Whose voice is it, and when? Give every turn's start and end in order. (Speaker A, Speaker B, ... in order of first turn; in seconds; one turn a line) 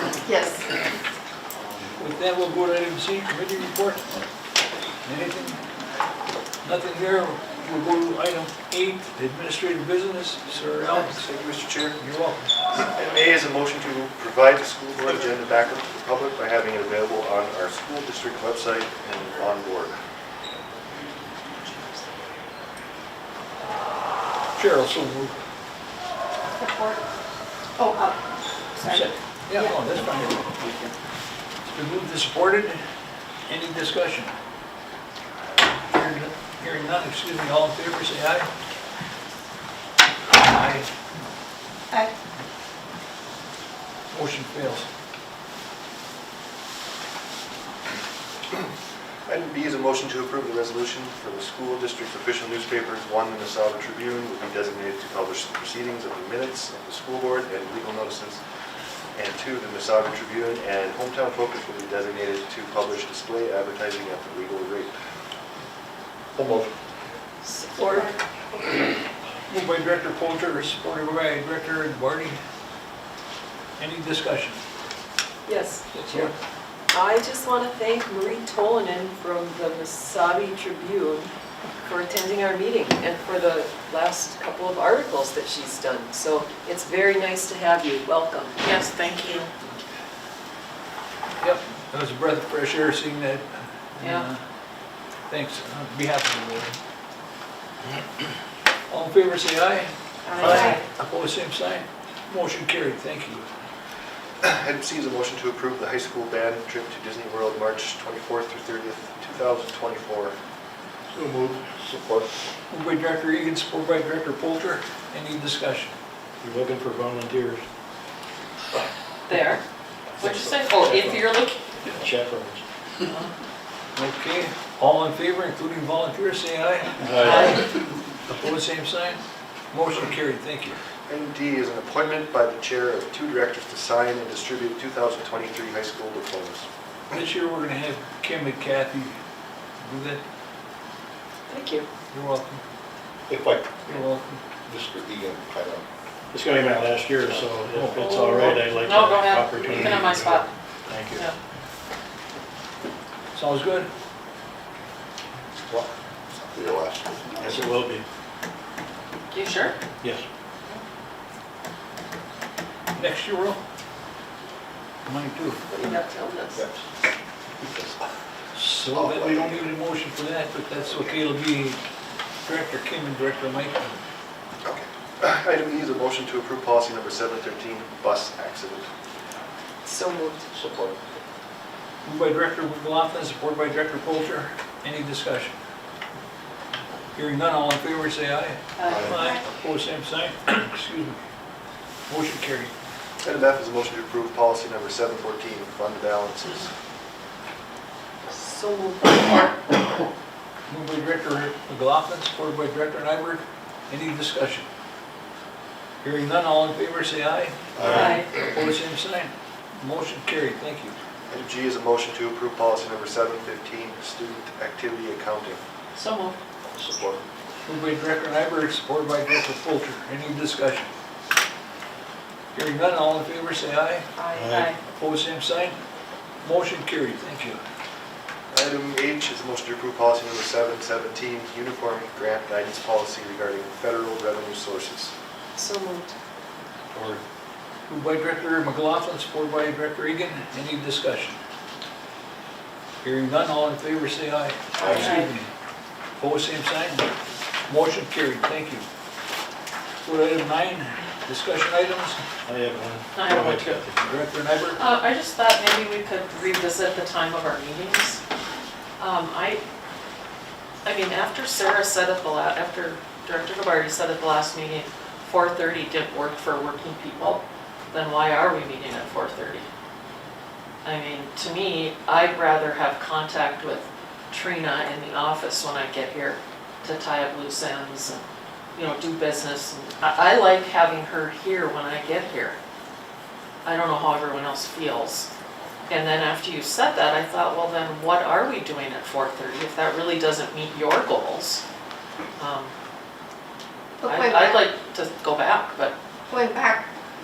Speaker A: 0.2-0.6
Speaker B: 2.0-4.0
Speaker B: 5.0-5.6
Speaker B: 6.6-11.2
Speaker C: 10.9-12.0
Speaker B: 12.0-12.5
Speaker C: 12.8-20.0
Speaker B: 24.6-25.3
Speaker A: 26.6-27.0
Speaker A: 27.8-28.2
Speaker B: 28.9-30.7
Speaker B: 31.6-32.8
Speaker B: 33.5-34.3
Speaker B: 35.9-38.5
Speaker B: 40.3-40.9
Speaker B: 44.1-44.9
Speaker C: 49.3-58.4
Speaker C: 59.1-64.9
Speaker D: 66.3-66.7
Speaker E: 67.4-68.1
Speaker A: 67.7-68.1
Speaker B: 69.5-72.4
Speaker B: 73.8-74.6
Speaker E: 75.5-75.8
Speaker B: 75.9-76.3
Speaker E: 76.9-81.3
Speaker E: 81.8-88.6
Speaker F: 88.6-89.5
Speaker B: 91.4-94.4
Speaker F: 94.0-94.2
Speaker B: 95.3-96.7
Speaker B: 98.9-103.5
Speaker F: 100.3-100.8
Speaker C: 104.4-110.3
Speaker G: 111.1-111.7
Speaker D: 111.7-112.3
Speaker B: 112.7-115.9
Speaker G: 116.4-117.6
Speaker F: 119.3-119.6
Speaker F: 120.2-121.9
Speaker G: 122.0-122.6
Speaker F: 123.0-123.3
Speaker B: 123.9-127.6
Speaker G: 127.0-127.6
Speaker F: 127.1-127.7
Speaker B: 128.3-129.2
Speaker B: 129.7-130.8
Speaker C: 131.1-136.7
Speaker B: 137.1-139.2
Speaker B: 139.8-140.2
Speaker E: 141.5-141.9
Speaker B: 142.1-142.6
Speaker D: 143.3-143.8
Speaker B: 143.8-144.4
Speaker D: 144.7-145.8
Speaker G: 146.3-151.3
Speaker D: 147.2-147.9
Speaker F: 148.0-150.5
Speaker B: 153.3-153.9
Speaker D: 156.5-157.7
Speaker G: 157.4-158.0
Speaker F: 159.3-159.8
Speaker B: 162.9-163.6
Speaker B: 165.1-165.6
Speaker F: 165.7-166.3
Speaker D: 166.5-166.8
Speaker D: 167.6-168.1
Speaker B: 168.5-171.8
Speaker D: 168.8-169.7
Speaker B: 172.4-174.0
Speaker C: 174.6-178.9
Speaker E: 179.8-180.5
Speaker D: 180.5-181.0
Speaker B: 182.0-185.5
Speaker B: 187.1-191.2
Speaker B: 192.1-192.7
Speaker C: 193.2-196.7
Speaker E: 198.3-199.6
Speaker B: 200.7-204.7
Speaker B: 206.0-210.9
Speaker D: 207.8-208.2
Speaker F: 207.8-208.3
Speaker C: 211.3-215.6
Speaker F: 215.9-216.4
Speaker D: 216.7-217.2
Speaker B: 217.7-220.9
Speaker B: 222.5-224.1
Speaker F: 224.2-224.8
Speaker G: 224.4-224.7
Speaker B: 225.0-225.8
Speaker B: 226.4-227.6
Speaker C: 228.5-235.1
Speaker E: 235.6-236.1
Speaker B: 237.9-241.4
Speaker B: 243.0-245.5
Speaker D: 244.8-245.2
Speaker F: 244.8-245.3
Speaker B: 246.2-247.1
Speaker B: 247.7-248.8
Speaker B: 250.0-252.2
Speaker G: 252.4-254.0
Speaker F: 253.1-253.8
Speaker B: 254.0-254.8
Speaker F: 254.8-258.2
Speaker F: 259.0-259.6
Speaker F: 260.8-269.6
Speaker F: 270.8-278.2
Speaker F: 278.7-282.6
Speaker F: 283.6-285.3
Speaker F: 285.9-291.6
Speaker F: 292.4-292.7
Speaker A: 294.0-294.6
Speaker F: 294.0-295.9
Speaker A: 296.3-296.9